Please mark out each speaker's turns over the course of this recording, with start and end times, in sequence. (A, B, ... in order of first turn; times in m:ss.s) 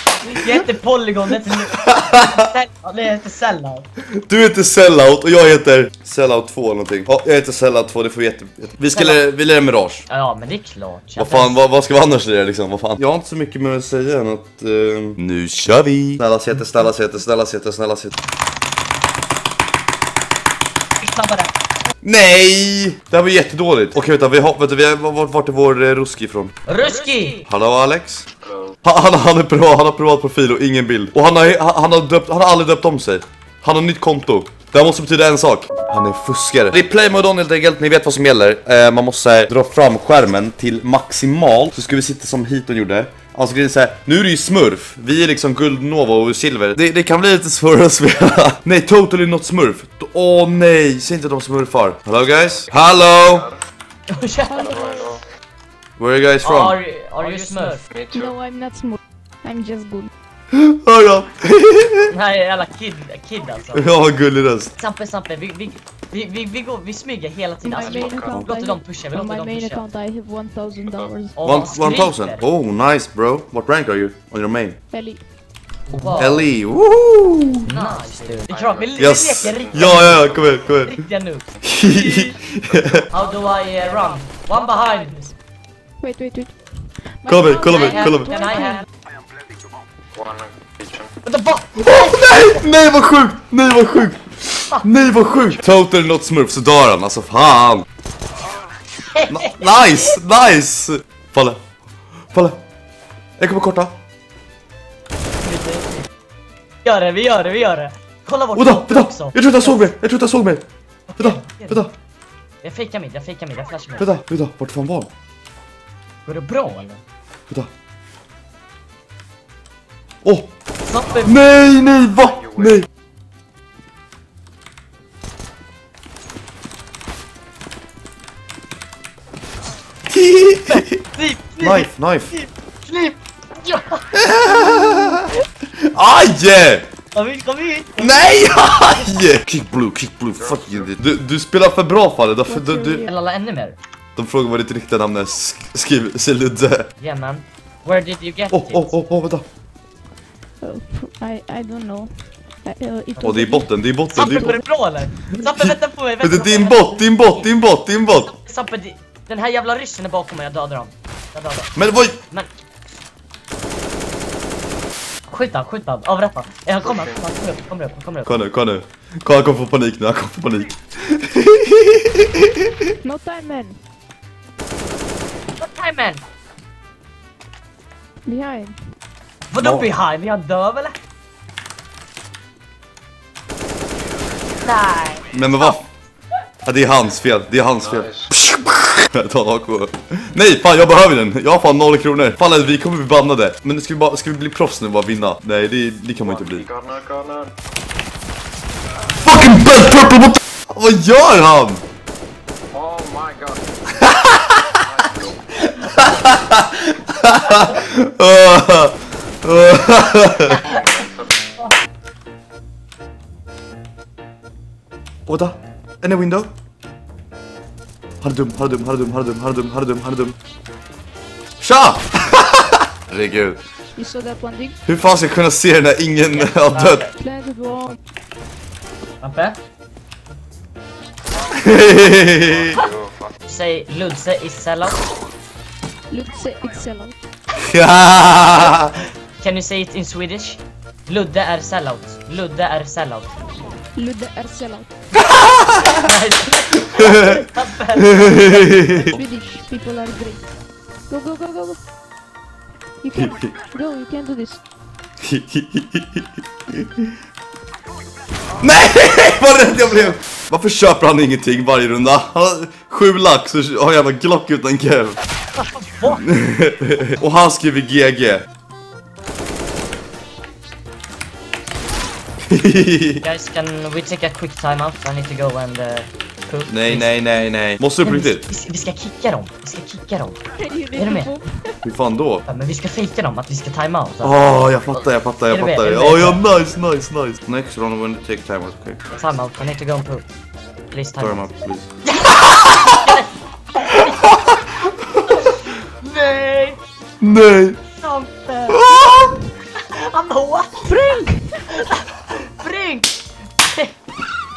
0:00.2-0:03.8 A
0:01.8-0:02.5 B
0:04.2-0:10.1 B
0:08.9-0:09.2 A
0:10.1-0:11.6 A
0:11.2-0:18.2 B
0:21.0-0:21.5 A
0:22.0-0:26.6 B
0:26.7-0:27.4 A
0:27.4-0:28.2 B
0:28.8-0:53.5 B
0:54.1-0:55.0 A
0:54.4-0:55.2 C
0:54.6-0:55.2 D
0:56.0-0:56.8 B
0:56.4-0:57.8 A
0:57.2-0:58.3 D
0:58.1-1:00.1 C
1:00.5-1:02.1 B
1:02.1-1:03.8 A
1:03.7-1:04.7 B
1:04.8-1:09.8 A
1:07.6-1:11.4 C
1:07.8-1:08.5 D
1:11.4-1:12.5 A
1:11.4-1:14.8 B
1:14.9-1:15.2 C
1:15.9-1:16.5 A
1:16.2-1:17.7 B
1:17.7-1:21.5 A
1:18.5-1:20.4 D
1:19.0-1:21.0 B
1:21.6-1:23.0 B
1:21.7-1:23.0 D
1:23.1-1:25.3 A
1:26.0-1:28.9 C
1:27.3-1:28.4 B
1:27.7-1:28.8 A
1:30.2-1:31.1 D
1:31.2-1:32.6 A
1:31.8-1:37.9 B
1:39.1-1:40.0 A
1:39.3-1:41.6 B
1:42.3-1:42.6 B
1:43.4-1:43.9 B
1:45.4-1:46.1 A
1:46.8-1:49.9 A
1:48.6-1:50.6 B
1:51.1-1:51.8 A
1:51.2-1:51.9 B
1:52.6-1:54.1 A
1:54.0-1:55.1 B
1:56.3-1:57.0 A
2:00.2-2:00.5 B
2:00.9-2:01.4 A
2:01.2-2:02.9 B
2:10.1-2:11.0 B
2:10.7-2:14.0 A
2:11.6-2:12.3 B
2:14.1-2:15.3 B
2:14.6-2:15.2 C
2:15.8-2:16.9 B
2:17.1-2:18.3 A
2:18.0-2:23.0 B
2:20.4-2:21.0 D
2:22.5-2:23.2 C
2:23.1-2:23.8 A
2:24.2-2:26.9 B
2:27.0-2:29.0 A
2:28.5-2:29.4 B
2:30.6-2:33.7 C
2:33.2-2:33.4 A
2:33.2-2:34.6 B
2:34.1-2:37.5 A
2:35.3-2:38.3 B
2:38.2-2:42.5 A
2:41.8-2:42.2 B
2:45.3-2:48.3 A
2:48.2-2:52.7 B
2:53.0-2:53.8 C
2:55.6-2:56.2 A
2:58.2-2:58.8 C
2:59.5-3:00.9 A
2:59.6-2:59.9 B
3:04.6-3:05.2 A
3:05.3-3:05.9 B
3:06.6-3:16.7 B
3:07.9-3:08.2 D
3:16.2-3:17.5 D
3:19.1-3:21.8 B
3:22.7-3:24.1 D
3:23.9-3:24.8 B
3:24.7-3:25.4 D
3:25.6-3:30.7 B
3:30.5-3:31.4 D
3:35.3-3:36.5 B
3:38.2-3:40.3 B
3:41.6-3:43.6 B
3:44.0-3:44.8 C
3:44.9-3:47.1 B
3:46.3-3:47.1 A
3:47.2-3:48.0 C
3:49.2-3:49.6 A
3:51.5-3:52.8 B
3:51.6-3:53.3 D
3:53.5-3:55.0 A
3:56.1-3:57.2 C
3:57.6-3:58.9 B
3:59.4-4:03.4 A
4:03.9-4:04.9 C
4:05.2-4:06.0 B
4:05.9-4:09.2 A
4:06.9-4:07.4 B
4:08.0-4:09.2 B
4:09.1-4:10.5 C
4:11.1-4:11.8 C
4:13.0-4:14.6 C
4:13.2-4:13.5 B
4:15.2-4:17.1 B
4:18.6-4:25.2 B
4:25.6-4:26.2 A
4:26.0-4:28.4 B
4:32.5-4:33.2 B
4:33.2-4:37.1 A
4:36.7-4:38.5 B
4:38.0-4:40.4 A
4:40.5-4:41.8 C
4:41.0-4:41.3 A
4:41.8-4:42.4 B
4:42.4-4:44.4 A
4:44.2-4:49.0 B
4:45.5-4:46.4 A
4:49.2-4:50.2 A
4:50.9-4:51.5 A
4:51.2-4:53.0 B
4:52.0-4:54.6 A
4:53.9-4:54.5 B
4:55.2-4:56.8 A
4:57.2-4:57.8 B
4:58.0-4:58.9 A
4:58.7-4:59.4 B
4:58.9-4:59.4 C
4:59.8-5:00.9 A
5:00.8-5:01.6 C
5:01.7-5:03.1 A
5:03.6-5:03.9 A